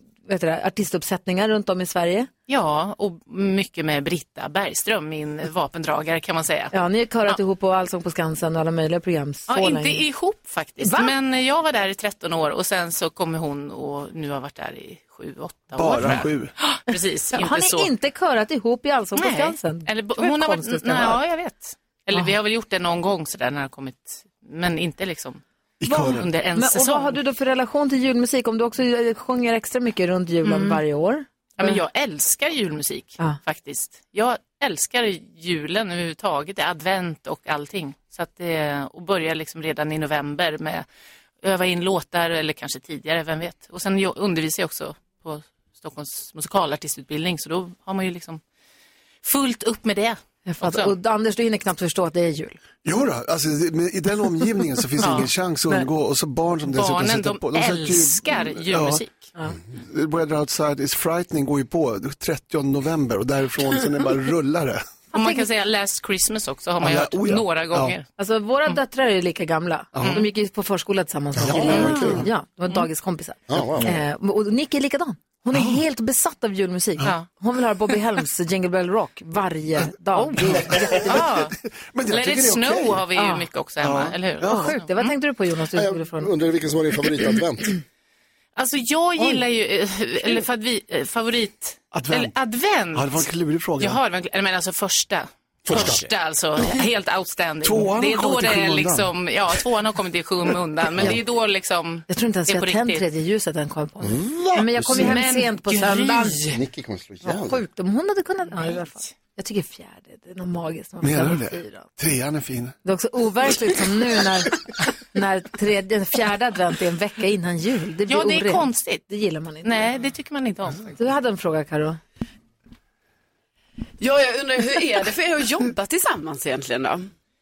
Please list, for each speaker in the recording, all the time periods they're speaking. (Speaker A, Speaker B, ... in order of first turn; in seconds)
Speaker A: 0.2-2.3, 6.7-10.1, 10.8-11.2, 17.3-21.2, 22.1-22.4, 25.9-31.8, 50.5-52.6, 55.0-55.9, 65.1-65.5, 68.2-81.3, 83.1-83.5, 84.4-86.3, 89.2-89.4, 102.1-106.6, 107.2-111.9, 112.8-119.9, 120.9-122.0
Speaker B: 2.5-7.4, 9.5-17.9, 19.1-25.4, 26.1-27.2, 30.4-30.8, 31.6-40.9, 41.4-48.4, 49.2-50.9, 55.0-55.3, 56.7-59.3, 65.1-68.0, 70.0-70.3, 71.6-71.9, 77.0-77.3, 80.2-81.5, 82.1-85.1, 88.5-103.0, 104.8-106.6, 108.5-109.1, 118.1-119.0, 119.6-120.9
Speaker C: 15.7-16.5, 25.8-26.3, 52.8-59.0, 59.7-64.9, 66.8-68.0, 70.0-70.2, 71.4-72.2, 75.5-75.8, 80.3-83.1, 83.8-84.7, 91.9-92.4, 92.9-94.0, 95.7-96.0, 96.5-96.8, 97.6-99.6, 100.9-101.2, 111.0-112.7
Speaker D: 71.3-72.3, 73.5-73.9, 85.7-87.7, 95.7-96.0, 104.0-105.1, 106.5-107.6
Speaker E: 124.0-127.1